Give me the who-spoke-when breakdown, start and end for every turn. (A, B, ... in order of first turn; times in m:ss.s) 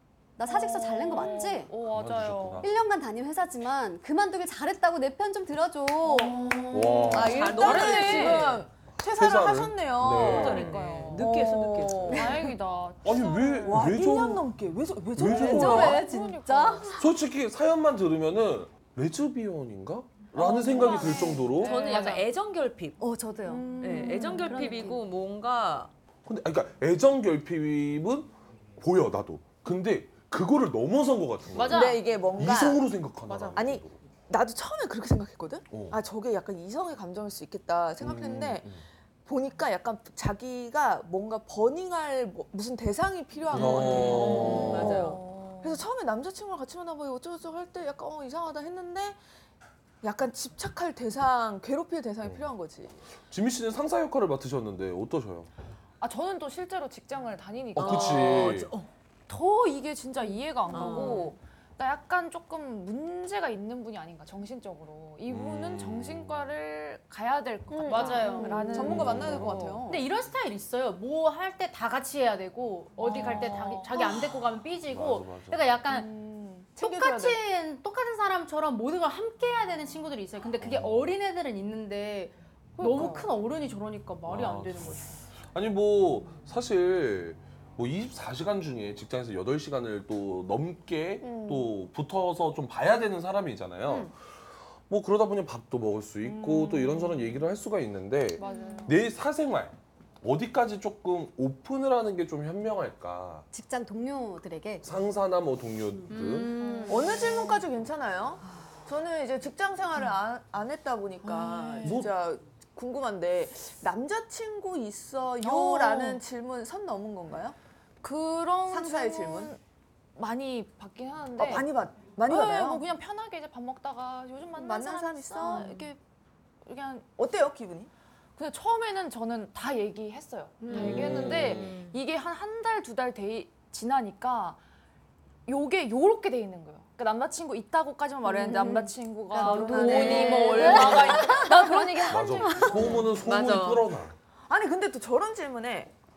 0:00.4-0:01.7 A
0:00.4-0:02.7 B
0:01.8-0:02.7 C
0:02.6-0:06.5 A
0:06.2-0:08.6 B
0:06.5-0:07.1 D
0:06.7-0:07.5 C
0:07.1-0:12.5 E
0:07.2-0:08.6 F
0:09.0-0:10.8 C
0:10.1-0:12.3 F
0:10.2-0:11.3 B
0:12.1-0:13.8 B
0:13.0-0:14.5 C
0:13.6-0:16.0 E
0:15.1-0:16.0 C
0:15.3-0:17.1 A
0:15.4-0:17.0 B
0:17.0-0:21.8 C
0:20.4-0:21.4 E
0:20.7-0:22.2 B
0:20.8-0:23.0 F
0:21.0-0:21.4 A
0:23.0-0:25.0 A
0:23.6-0:24.6 E
0:23.7-0:25.9 F
0:23.8-0:24.3 B
0:26.2-0:34.0 C
0:31.5-0:32.2 D
0:31.7-0:32.9 E
0:33.2-0:33.6 D
0:33.5-0:38.7 E
0:35.7-0:36.0 C
0:38.0-0:38.8 C
0:39.3-0:49.2 E
0:43.5-0:45.0 C
0:43.5-0:45.2 F
0:44.4-0:45.8 B
0:50.0-0:52.9 E
0:53.3-0:55.5 C
0:56.0-0:58.6 B
0:57.7-0:58.7 C
0:57.8-0:58.9 F
0:59.3-1:09.8 B
1:00.7-1:01.3 F
1:05.3-1:06.5 C
1:07.7-1:10.0 E
1:07.9-1:09.0 D
1:08.8-1:09.8 C
1:09.8-1:16.1 D
1:13.0-1:14.0 B
1:14.9-1:15.6 C
1:15.9-1:17.4 E
1:16.8-1:25.1 D
1:20.6-1:21.1 C
1:22.8-1:23.3 E
1:24.2-1:25.0 C
1:25.5-1:34.1 C
1:31.2-1:31.7 E
1:34.9-1:43.4 C
1:36.4-1:37.3 B
1:38.4-1:39.0 B
1:43.5-1:44.8 A
1:44.8-1:46.5 C
1:46.1-1:46.9 D
1:46.1-1:47.1 F
1:46.9-1:57.6 E
1:51.2-1:52.0 B
1:51.8-1:52.1 C
1:55.4-1:56.2 B
1:58.0-1:59.6 B
1:58.7-1:59.5 E
2:00.2-2:01.7 B
2:01.4-2:02.8 E
2:02.3-2:06.0 B
2:04.6-2:05.8 E
2:06.6-2:07.1 B
2:07.2-2:07.9 E
2:08.4-2:14.6 B
2:10.6-2:12.0 F
2:10.7-2:11.7 C
2:15.4-2:23.1 B
2:18.2-2:18.9 E
2:18.4-2:22.0 A
2:19.4-2:21.2 E
2:19.7-2:21.4 F
2:20.6-2:21.2 D
2:22.1-2:24.1 C
2:22.6-2:23.8 F
2:24.5-2:25.9 E